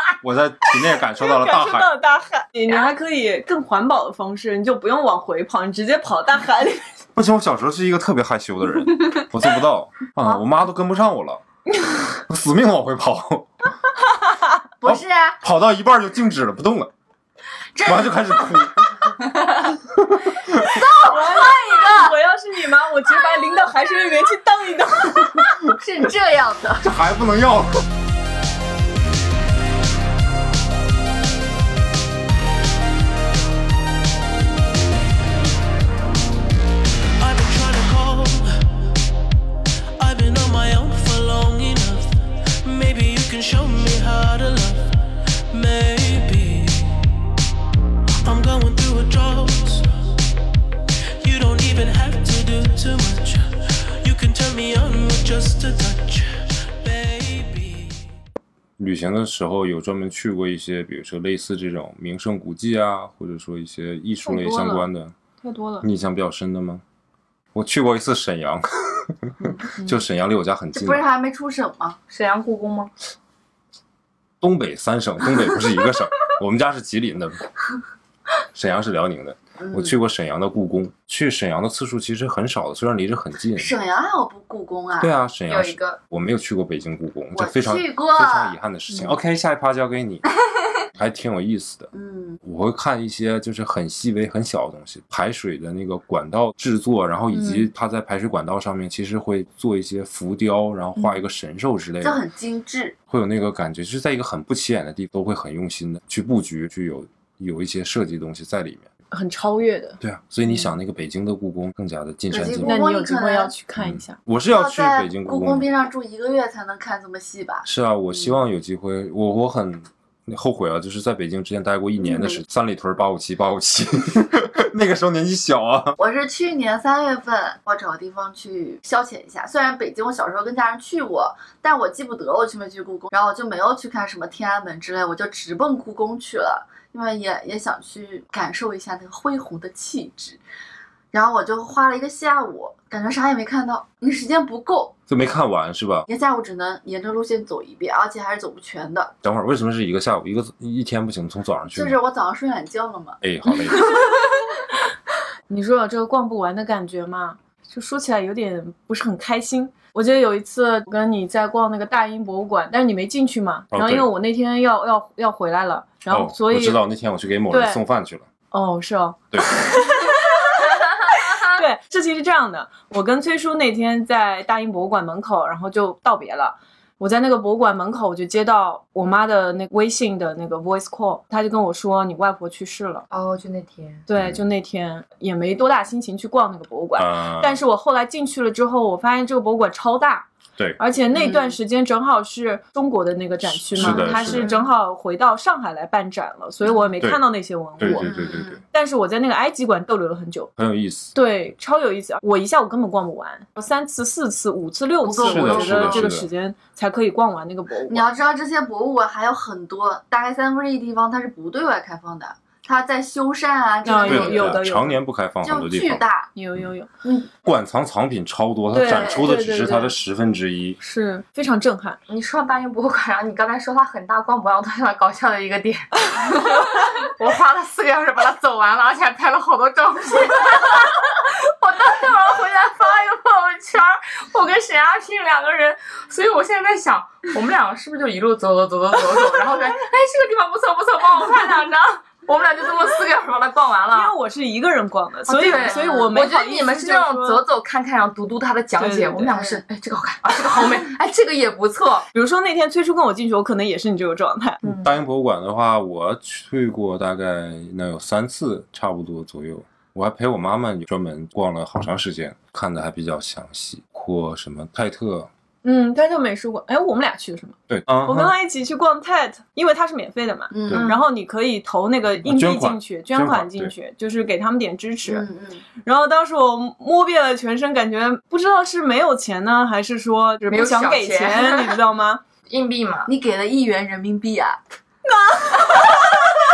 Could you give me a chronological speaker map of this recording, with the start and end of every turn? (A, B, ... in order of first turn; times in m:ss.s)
0:00.2-0:01.9 A
0:01.2-0:06.8 B
0:07.1-0:11.4 A
0:12.3-0:13.7 A
0:14.8-0:15.4 C
0:14.8-0:16.9 A
0:17.8-0:18.2 C
0:17.8-0:19.1 A
0:19.3-0:19.8 C
0:20.0-0:20.8 A
0:20.5-0:22.1 C
0:21.0-0:25.5 B
0:25.6-0:26.8 C
0:26.8-0:27.8 A
0:37.2-0:38.6 D
0:40.0-0:47.0 D
0:48.2-0:49.9 D
0:51.2-0:58.1 D
0:58.8-1:05.1 A
1:04.2-1:04.8 B
1:05.4-1:05.9 B
1:05.8-1:06.8 A
1:07.5-1:11.0 A
1:09.4-1:10.0 B
1:10.7-1:12.0 C
1:12.1-1:12.9 E
1:14.4-1:17.4 A
1:18.5-1:23.7 A
1:19.6-1:20.0 C
1:23.6-1:25.1 C
1:25.0-1:30.2 A
1:25.5-1:26.0 E
1:27.3-1:28.5 C
1:31.0-1:31.9 A
1:31.9-1:32.4 C
1:32.4-1:42.2 A
1:42.0-1:43.0 C
1:43.1-1:48.9 A
1:49.1-1:50.0 B
1:50.0-1:52.8 A
1:52.3-1:53.5 C
1:52.6-1:54.2 B
1:53.8-1:55.7 A
1:54.5-1:57.6 C
1:57.6-2:06.0 A
2:02.0-2:02.4 C
2:06.0-2:20.4 C
2:21.1-2:25.0 C
2:25.1-2:26.1 A
2:26.1-2:29.1 C
2:29.2-2:32.0 A
2:31.7-2:33.2 C
2:33.2-2:34.0 A
2:33.8-2:34.0 C
2:35.5-2:46.8 B
2:43.7-2:44.1 A
2:46.1-2:48.3 A
2:47.5-2:47.8 B
2:48.5-3:03.0 B
2:49.3-2:49.6 A
3:03.1-3:04.0 E
3:04.1-3:20.5 B
3:04.1-3:04.4 A
3:07.0-3:07.6 A
3:11.1-3:11.6 C
3:13.7-3:14.5 A
3:13.8-3:14.6 C
3:17.8-3:18.6 A
3:17.8-3:18.6 C
3:20.6-3:21.1 A
3:21.1-3:28.1 B
3:25.0-3:26.1 C
3:25.2-3:26.3 A
3:27.9-3:34.6 C
3:33.8-3:35.0 B
3:34.0-3:36.0 A
3:35.4-3:36.3 C
3:36.3-3:36.9 B
3:37.0-3:37.3 C
3:37.4-3:40.8 A
3:38.7-3:40.0 B
3:38.8-3:39.3 C
3:40.8-3:42.0 B
3:42.1-4:04.1 E
4:03.9-4:07.4 B
4:05.3-4:12.0 E
4:05.4-4:06.2 C
4:08.8-4:09.3 B
4:09.3-4:09.6 C
4:12.1-4:14.6 B
4:14.6-4:14.9 E
4:14.6-4:25.3 A
4:25.6-4:35.3 B
4:27.7-4:28.3 A
4:30.5-4:30.9 C
4:32.2-4:33.7 A
4:35.0-4:35.6 C
4:35.8-4:42.2 B
4:40.5-4:41.7 E
4:42.5-4:43.1 E
4:43.1-4:44.6 C
4:45.1-4:45.9 B